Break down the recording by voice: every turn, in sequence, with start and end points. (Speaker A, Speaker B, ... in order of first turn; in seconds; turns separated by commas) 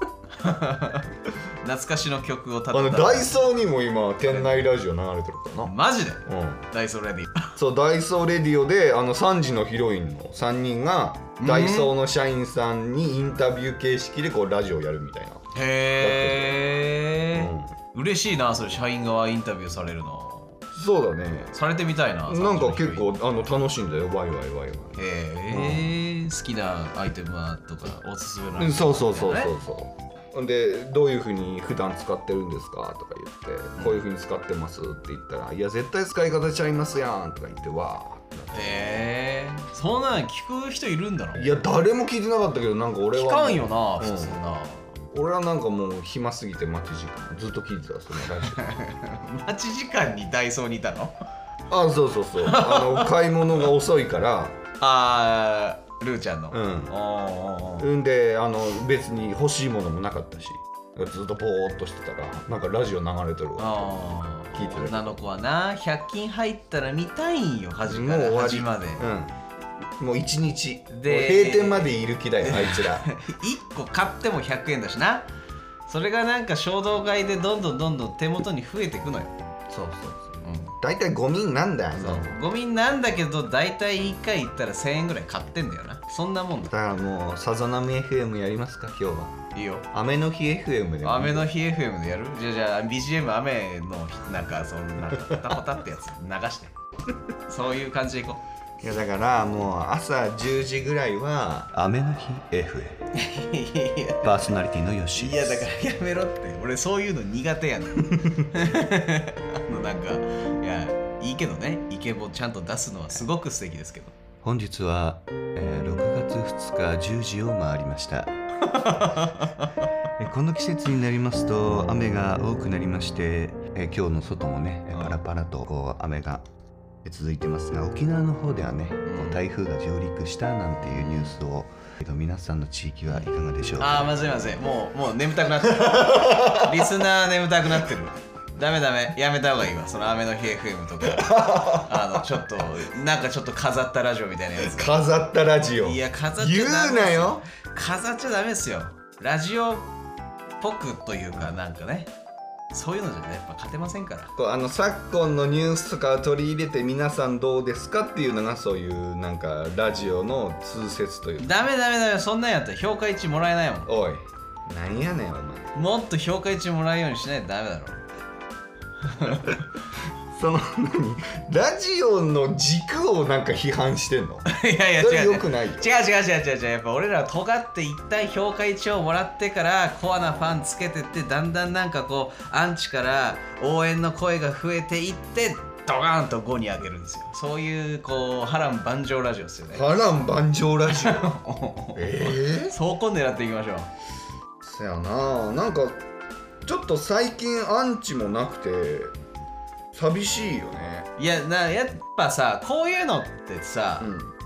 Speaker A: 0.3-3.4, Speaker B: 2.7-5.7, Speaker A: 4.2-4.7, Speaker A: 5.6-7.5, Speaker B: 6.2-6.6, Speaker B: 7.5-15.4, Speaker A: 11.4-11.9, Speaker A: 15.5-20.6, Speaker B: 16.0-16.7, Speaker B: 17.3-17.7, Speaker B: 20.7-21.5, Speaker A: 21.5-23.1, Speaker B: 22.3-25.9, Speaker A: 24.9-29.5, Speaker B: 28.6-39.0, Speaker A: 38.5-41.5, Speaker B: 41.3-44.3, Speaker A: 43.1-44.9, Speaker B: 45.1-48.7, Speaker A: 48.2-51.1, Speaker B: 51.7-54.6, Speaker A: 52.4-53.1, Speaker A: 54.8-57.9, Speaker B: 56.5-56.9, Speaker B: 57.8-63.9, Speaker A: 63.6-69.1, Speaker B: 64.5-65.1, Speaker B: 67.9-69.3, Speaker B: 70.0-73.0, Speaker A: 70.9-75.3, Speaker A: 75.9-79.3, Speaker B: 79.7-82.3, Speaker A: 80.4-80.8, Speaker A: 82.0-86.7, Speaker B: 86.7-89.4, Speaker A: 89.5-89.8, Speaker B: 89.9-91.5, Speaker A: 91.0-96.7, Speaker B: 95.1-95.5, Speaker A: 97.5-98.4, Speaker B: 98.8-103.0, Speaker A: 103.1-104.6, Speaker B: 104.2-105.7, Speaker A: 105.1-114.1, Speaker B: 108.1-108.4, Speaker B: 114.4-118.3, Speaker A: 118.6-119.9, Speaker B: 120.2-126.4, Speaker A: 124.9-125.2, Speaker B: 127.0-134.1, Speaker A: 129.0-129.4, Speaker A: 133.8-144.9, Speaker B: 135.7-136.9, Speaker B: 141.1-141.9, Speaker B: 144.6-147.4, Speaker A: 145.8-149.9, Speaker A: 150.6-152.1, Speaker A: 152.7-154.3, Speaker B: 154.3-161.5, Speaker A: 161.4-163.9, Speaker B: 163.8-165.7, Speaker A: 165.7-168.0, Speaker A: 169.1-169.6, Speaker B: 169.2-169.6, Speaker B: 170.3-174.5, Speaker A: 174.4-189.9, Speaker B: 175.0-175.9, Speaker B: 189.7-191.3, Speaker A: 190.9-193.9, Speaker B: 191.9-192.8, Speaker B: 194.6-196.0, Speaker B: 196.6-199.1, Speaker B: 199.9-201.1, Speaker A: 201.2-204.1, Speaker B: 204.0-204.3